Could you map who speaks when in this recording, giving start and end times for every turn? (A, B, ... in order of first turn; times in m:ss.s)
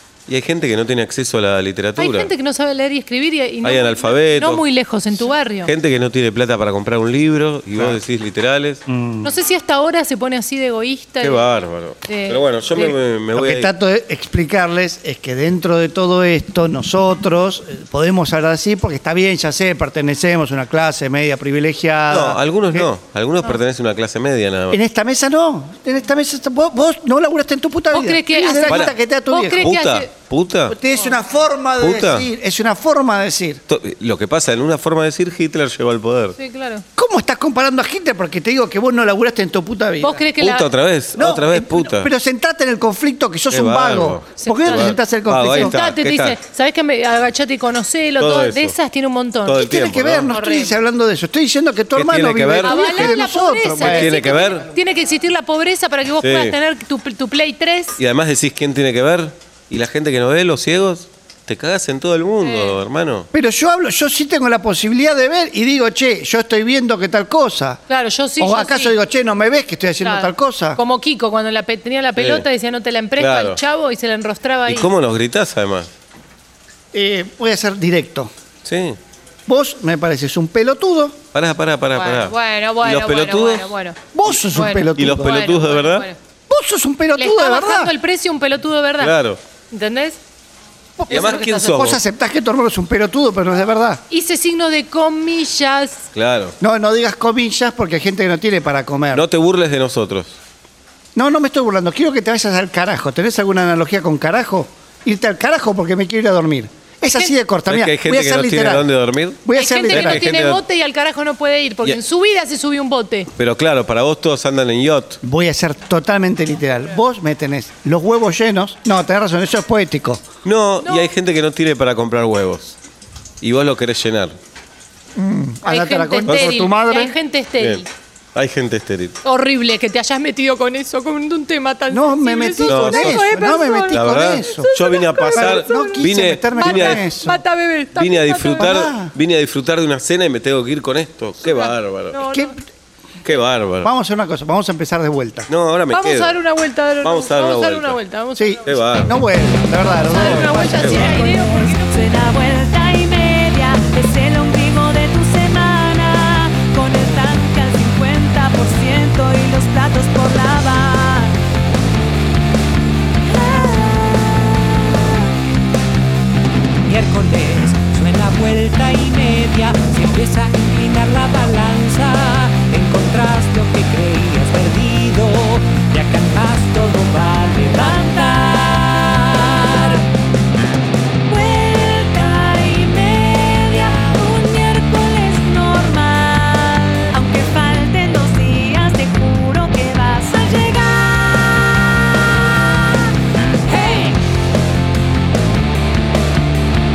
0:00.3-0:02.3 A
0:02.0-0:05.7 B
0:03.6-0:04.6 A
0:05.6-0:08.8 A
0:07.7-0:08.0 C
0:08.9-0:09.4 C
0:09.2-0:11.5 B
0:11.2-0:13.7 A
0:12.0-0:13.0 B
0:13.3-0:22.9 C
0:22.1-0:24.8 A
0:24.7-0:29.7 C
0:27.9-0:30.1 B
0:28.7-0:28.9 A
0:29.6-0:30.8 A
0:30.7-0:33.6 C
0:31.8-0:32.3 A
0:33.7-0:36.4 A
0:36.4-0:36.8 B
0:37.0-0:40.2 C
0:40.0-0:40.7 B
0:40.4-0:42.1 A
0:41.2-0:45.8 C
0:43.5-0:46.4 A
0:44.4-0:49.7 B
0:48.2-0:48.8 A
0:49.4-0:50.3 A
0:49.6-0:54.2 C
0:50.3-0:50.8 B
0:51.9-0:53.2 A
0:52.6-0:58.0 B
0:53.8-0:54.7 A
0:56.2-0:56.6 A
0:58.0-1:03.3 A
1:02.4-1:02.8 B
1:03.3-1:07.8 C
1:07.9-1:09.0 B
1:08.4-1:10.8 C
1:10.0-1:14.9 B
1:12.2-1:12.4 A
1:13.2-1:13.6 A
1:14.6-1:15.9 A
1:16.9-1:18.3 C
1:18.6-1:19.0 A
1:19.5-1:21.2 C
1:21.3-1:23.7 A
1:21.9-1:26.2 B
1:24.1-1:25.4 C
1:25.0-1:26.1 A
1:26.5-1:27.9 C
1:27.1-1:29.2 B
1:29.0-1:29.4 A
1:29.7-1:30.2 B
1:31.0-1:34.0 C
1:31.1-1:32.0 A
1:31.2-1:31.7 B
1:34.1-1:36.1 B
1:36.1-1:36.5 A
1:36.6-1:39.2 C
1:39.1-1:40.4 A
1:41.1-1:48.9 C
1:47.7-1:50.6 A
1:49.4-1:50.3 C
1:49.5-1:53.3 B
1:53.4-1:55.2 A
1:55.2-2:00.2 C
2:00.4-2:02.8 A
2:00.8-2:01.1 B
2:03.4-2:04.4 A
2:05.2-2:07.2 C
2:05.6-2:07.9 B
2:06.2-2:06.6 A
2:07.6-2:07.8 A
2:08.3-2:09.2 A
2:09.2-2:18.8 B
2:11.9-2:14.7 C
2:12.6-2:13.3 A
2:13.9-2:17.0 A
2:15.3-2:17.4 C
2:17.9-2:22.2 A
2:18.6-2:19.1 C
2:21.4-2:22.6 B
2:22.3-2:22.6 C
2:23.2-2:23.9 A
2:23.8-2:25.5 C
2:25.5-2:26.4 A
2:25.9-2:28.8 B
2:27.0-2:28.0 A
2:28.4-2:31.7 C
2:28.6-2:29.2 A
2:29.9-2:32.3 B
2:30.1-2:31.3 A
2:31.8-2:41.3 D
2:43.7-2:44.2 B
2:46.8-2:58.0 E
2:58.0-2:59.0 D
2:58.1-2:58.4 B
3:01.3-3:10.8 D
3:10.8-3:12.0 B
3:13.7-3:14.2 B